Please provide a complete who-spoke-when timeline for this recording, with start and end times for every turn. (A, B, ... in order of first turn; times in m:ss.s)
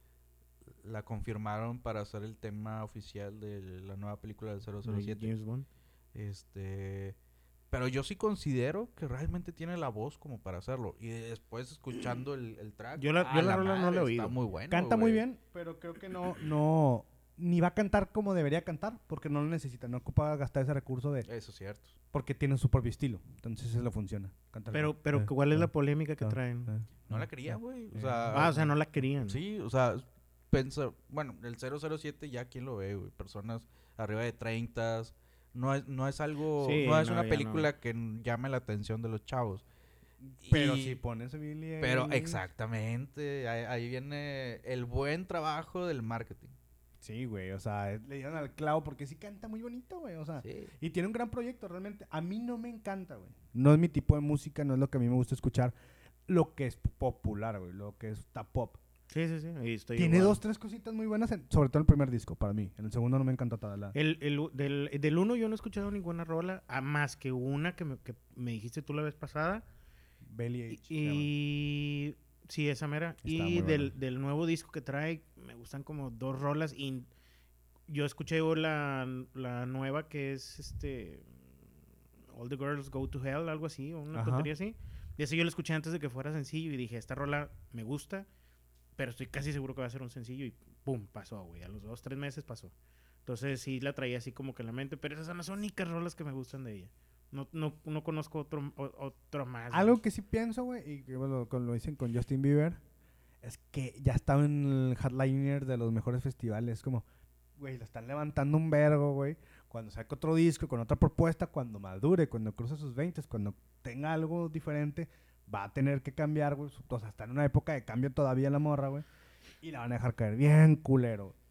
0:00.8-0:05.3 A
0:04.8-0:05.7 B
0:06.1-0:07.2 A
0:07.7-0:15.2 A
0:13.0-0:14.4 B
0:14.7-0:21.3 C
0:21.2-0:22.0 A
0:22.1-0:25.7 C
0:24.7-0:26.7 B
0:26.2-0:28.7 C
0:27.1-0:28.7 A
0:28.3-0:29.4 B
0:29.2-0:39.6 A
0:36.6-0:37.7 B
0:40.2-0:42.4 C
0:40.4-0:41.0 A
0:41.8-0:46.6 A
0:47.0-0:55.7 C
0:50.4-0:50.7 A
0:56.3-0:58.8 C
0:59.1-1:00.4 B
1:00.0-1:04.0 C
1:03.9-1:09.7 B
1:10.3-1:11.3 C
1:10.7-1:17.1 B
1:13.2-1:13.9 C
1:17.9-1:21.4 B
1:22.3-1:28.3 B
1:24.1-1:24.5 C
1:29.0-1:32.7 B
1:33.3-1:40.0 B
1:39.7-1:42.8 C
1:43.4-1:47.0 C
1:47.6-1:59.0 C
1:59.6-2:01.4 C